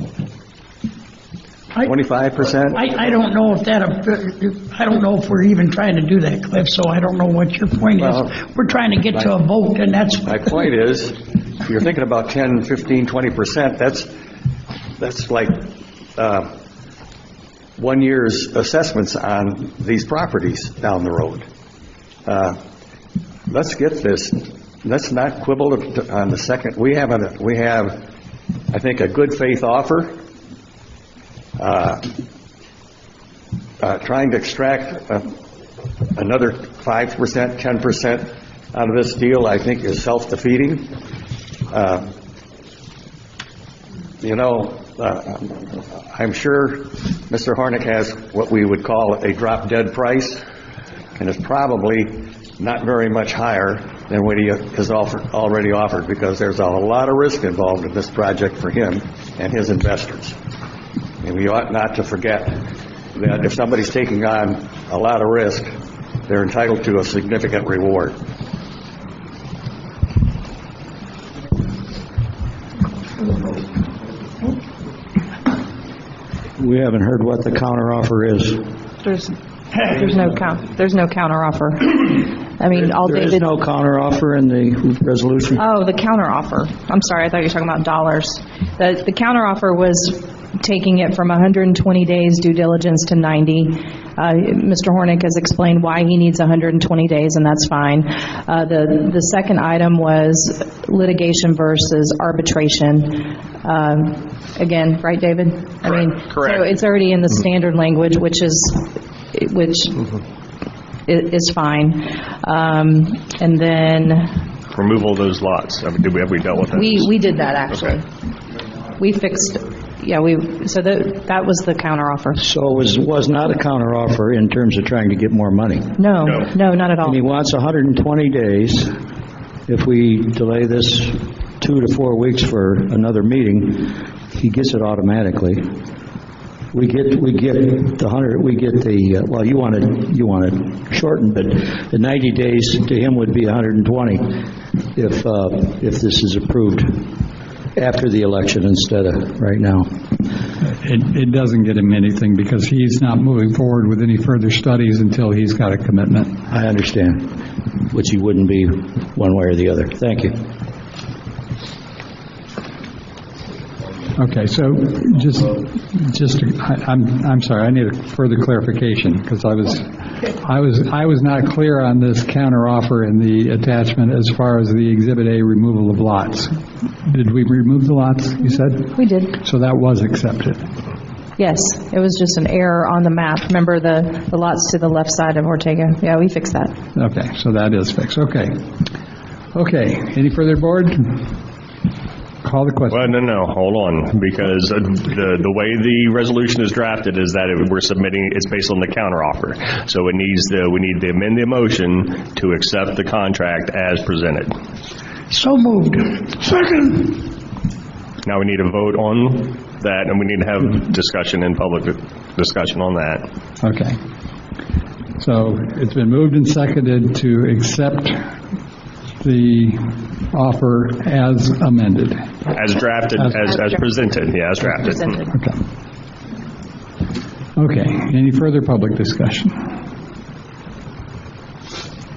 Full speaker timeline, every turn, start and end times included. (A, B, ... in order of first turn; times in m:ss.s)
0:01.8-0:02.8 A
0:02.7-0:10.4 B
0:08.0-0:08.3 A
0:10.2-0:14.1 A
0:15.0-0:16.5 A
0:17.8-0:21.4 A
0:22.2-0:22.6 A
0:23.5-0:28.0 A
0:28.7-0:30.2 A
0:31.6-0:32.0 A
0:33.8-0:35.3 A
0:36.2-0:40.9 A
0:41.7-0:42.1 A
0:44.2-0:50.4 A
0:51.2-1:00.4 A
1:01.2-1:02.6 A
1:03.1-1:05.7 A
1:06.3-1:08.1 A
1:16.6-1:18.7 C
1:19.0-1:23.4 D
1:22.7-1:25.6 C
1:25.6-1:50.1 D
1:45.9-1:46.6 E
1:51.1-1:54.4 D
1:54.7-1:57.1 E
1:56.7-1:58.1 D
1:59.0-2:02.4 D
2:02.4-2:05.9 C
2:06.0-2:07.2 D
2:07.0-2:08.9 C
2:09.7-2:15.6 C
2:16.7-2:27.1 C
2:27.8-2:29.9 C
2:30.6-2:36.4 F
2:36.5-2:40.4 C
2:44.2-3:00.6 F
2:58.9-2:59.4 D
3:01.4-3:06.7 D
3:07.0-3:08.5 F
3:09.5-3:11.2 F
3:12.4-3:13.1 F
3:12.9-3:24.5 E
3:25.3-3:27.3 B
3:28.2-3:33.2 E
3:33.6-3:34.0 F
3:35.2-3:38.3 F
3:39.2-3:42.3 F
3:42.5-3:45.2 E
3:45.3-3:45.6 F
3:47.6-3:49.5 F